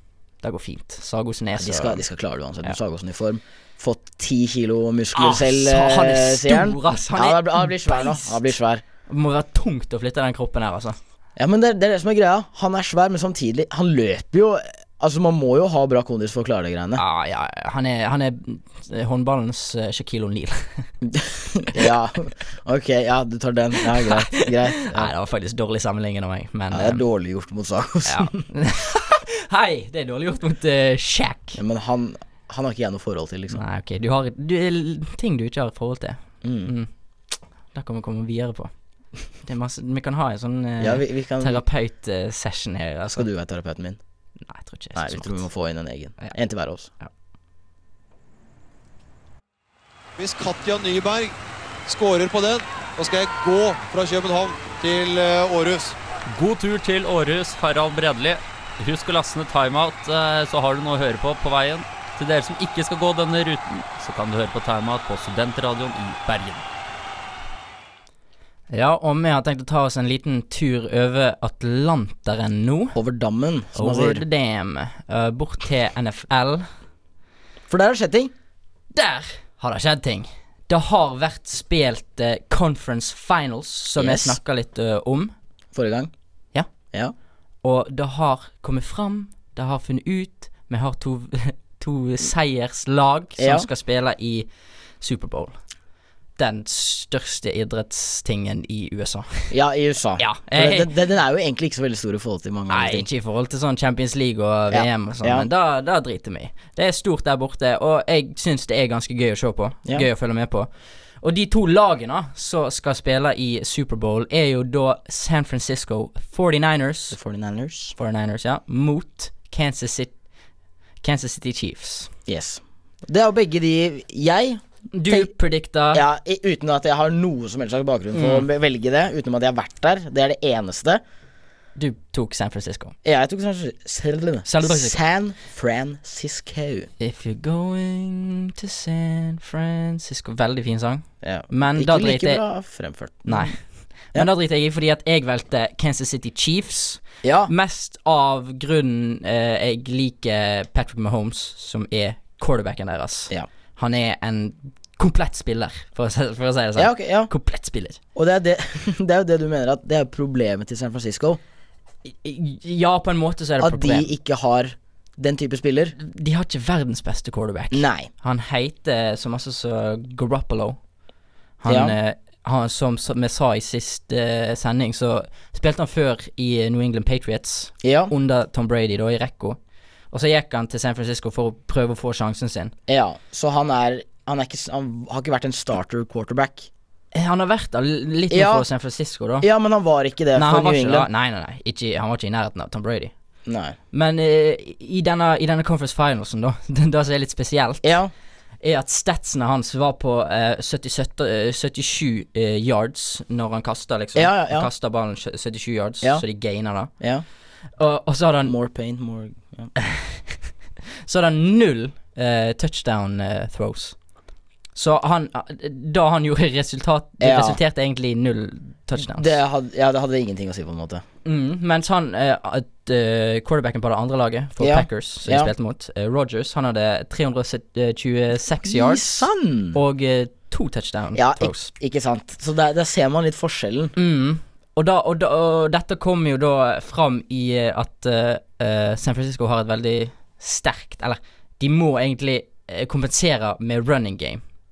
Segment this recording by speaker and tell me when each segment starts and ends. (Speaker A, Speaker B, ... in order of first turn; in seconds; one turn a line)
Speaker A: 0.4-2.0
Speaker B: 1.6-8.8
Speaker A: 5.1-8.4
Speaker A: 9.1-10.9
Speaker B: 11.4-17.0
Speaker A: 17.0-20.9
Speaker B: 21.0-25.1
Speaker A: 23.9-27.0
Speaker B: 26.7-28.4
Speaker A: 28.1-31.6
Speaker B: 31.6-33.6
Speaker A: 33.5-36.9
Speaker B: 36.4-36.7
Speaker A: 37.7-38.7
Speaker A: 39.4-43.2
Speaker B: 40.8-41.6
Speaker B: 43.1-44.0
Speaker A: 44.4-45.4
Speaker B: 44.9-46.9
Speaker C: 50.2-51.3
Speaker C: 51.9-56.0
Speaker D: 56.3-66.6
Speaker A: 68.7-73.0
Speaker B: 72.9-74.2
Speaker A: 73.7-76.7
Speaker B: 77.7-78.3
Speaker A: 78.9-85.3
Speaker B: 84.0-84.4
Speaker B: 85.7-86.1
Speaker A: 87.6-94.5
Speaker B: 93.4-93.7
Speaker A: 95.0-95.5
Speaker A: 96.4-99.5
Speaker B: 99.5-103.1
Speaker A: 100.2-100.9
Speaker A: 102.7-110.7
Speaker B: 104.7-105.5
Speaker A: 111.2-117.2
Speaker B: 117.1-117.9
Speaker A: 118.0-120.1
Speaker A: 121.0-122.1
Speaker B: 122.3-125.3
Speaker A: 124.9-126.0
Speaker B: 125.9-131.0
Speaker A: 128.1-128.5
Speaker A: 131.8-132.9
Speaker B: 133.0-136.9
Speaker A: 134.4-135.0
Speaker A: 137.0-142.4
Speaker B: 141.2-143.6
Speaker A: 143.3-143.6
Speaker A: 144.1-158.0
Speaker B: 147.2-147.5
Speaker B: 156.8-157.3
Speaker B: 158.1-161.4
Speaker A: 162.1-164.1
Speaker B: 163.6-165.9
Speaker A: 166.0-170.8
Speaker B: 167.7-168.1
Speaker A: 171.6-179.6
Speaker B: 171.7-171.9
Speaker B: 177.8-178.1
Speaker A: 180.1-182.7
Speaker B: 182.9-186.7
Speaker A: 187.1-189.5
Speaker B: 188.3-188.7
Speaker B: 189.4-191.1
Speaker A: 190.3-193.1
Speaker B: 193.4-193.8
Speaker A: 193.9-197.9
Speaker B: 197.8-198.1
Speaker A: 198.6-206.9
Speaker B: 204.1-204.7
Speaker B: 207.0-207.2
Speaker A: 207.8-208.5
Speaker B: 208.4-209.7
Speaker A: 209.8-210.4
Speaker A: 211.1-214.0
Speaker A: 214.7-219.3
Speaker B: 217.2-217.6
Speaker B: 219.0-221.0
Speaker A: 221.2-231.7
Speaker B: 224.6-225.5
Speaker B: 228.6-229.8
Speaker B: 231.1-233.9
Speaker A: 233.9-244.4